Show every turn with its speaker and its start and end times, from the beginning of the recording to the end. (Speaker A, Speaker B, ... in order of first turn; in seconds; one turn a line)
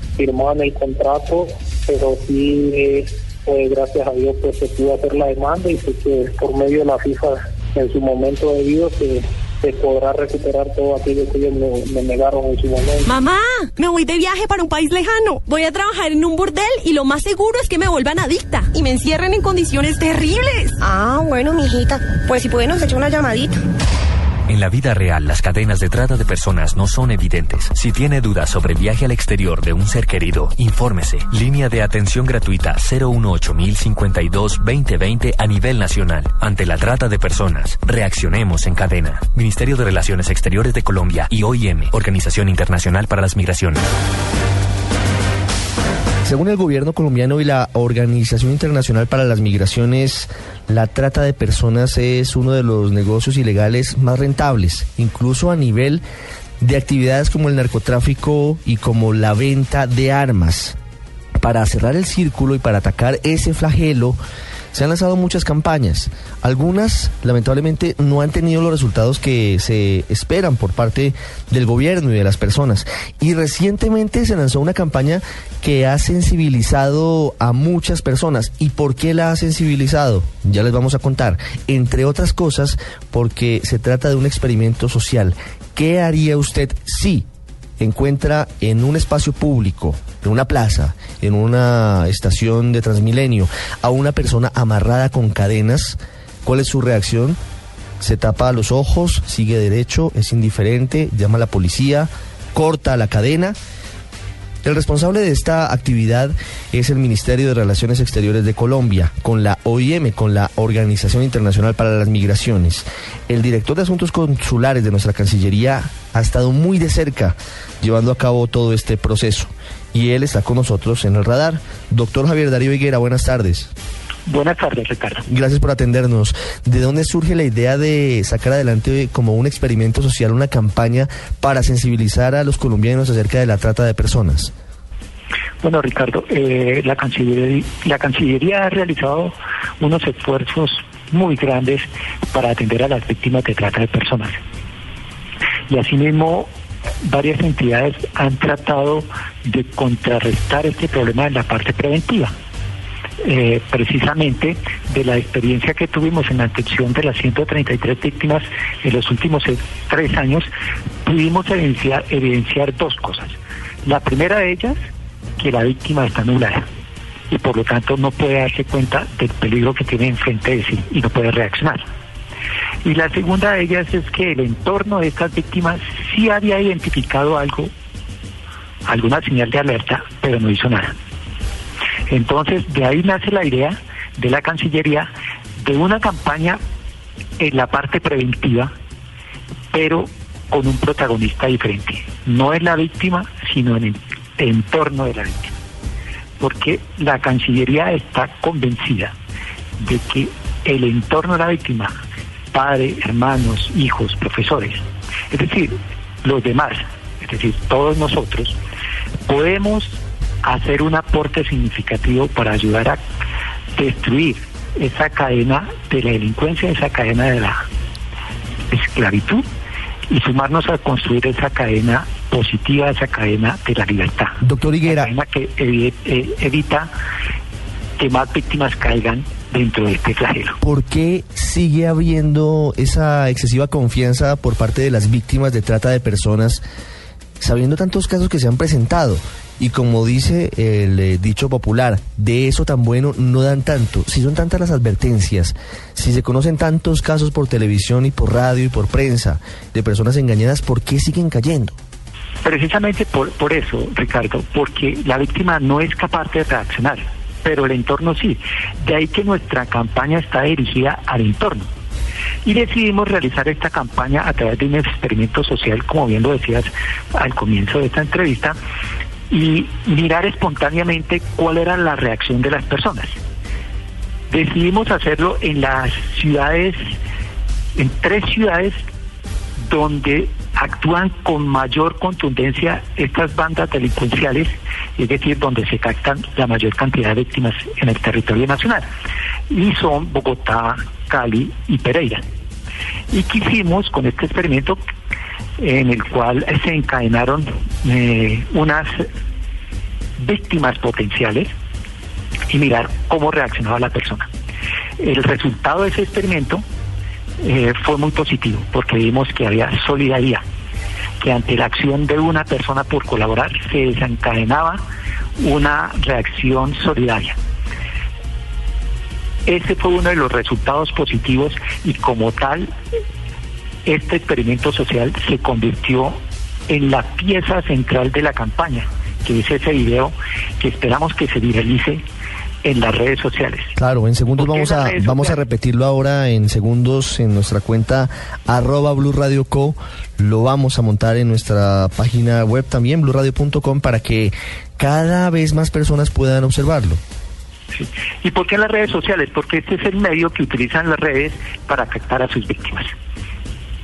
Speaker A: 0.2-13.1
Speaker B: 13.1-20.8
Speaker C: 20.8-23.6
Speaker D: 24.5-43.8
Speaker E: 46.2-56.0
Speaker E: 56.6-60.8
Speaker E: 61.4-64.2
Speaker E: 64.7-87.2
Speaker E: 87.8-97.4
Speaker E: 98.0-103.6
Speaker E: 104.6-123.7
Speaker F: 124.3-125.2
Speaker E: 125.3-134.5
Speaker F: 135.6-144.4
Speaker F: 145.7-146.5
Speaker F: 147.0-152.3
Speaker F: 153.2-160.5
Speaker F: 161.0-164.8
Speaker F: 165.4-166.7
Speaker F: 167.3-171.8
Speaker F: 172.8-177.7
Speaker F: 178.8-180.9
Speaker F: 182.1-186.6
Speaker F: 187.4-188.7
Speaker F: 189.7-195.5
Speaker F: 196.4-199.1
Speaker F: 199.8-202.0
Speaker F: 202.5-208.6
Speaker F: 209.3-213.0
Speaker F: 213.8-217.6
Speaker F: 218.7-219.4
Speaker F: 220.1-226.9
Speaker E: 224.4-225.1
Speaker F: 228.0-230.6
Speaker E: 230.6-236.6
Speaker E: 237.4-251.8
Speaker F: 252.4-261.7
Speaker F: 262.4-268.6
Speaker F: 269.3-273.1
Speaker F: 274.3-276.9
Speaker F: 277.8-278.8
Speaker F: 279.6-288.9
Speaker F: 289.5-292.2
Speaker F: 293.1-294.8
Speaker F: 295.6-299.1
Speaker F: 300.2-301.5
Speaker F: 302.5-304.3
Speaker F: 305.0-306.6
Speaker F: 307.4-310.4
Speaker F: 311.2-314.8
Speaker F: 315.4-317.4
Speaker F: 319.4-322.7
Speaker F: 323.8-332.0
Speaker F: 332.6-333.7
Speaker E: 333.8-347.0
Speaker F: 334.4-335.4
Speaker F: 347.7-352.9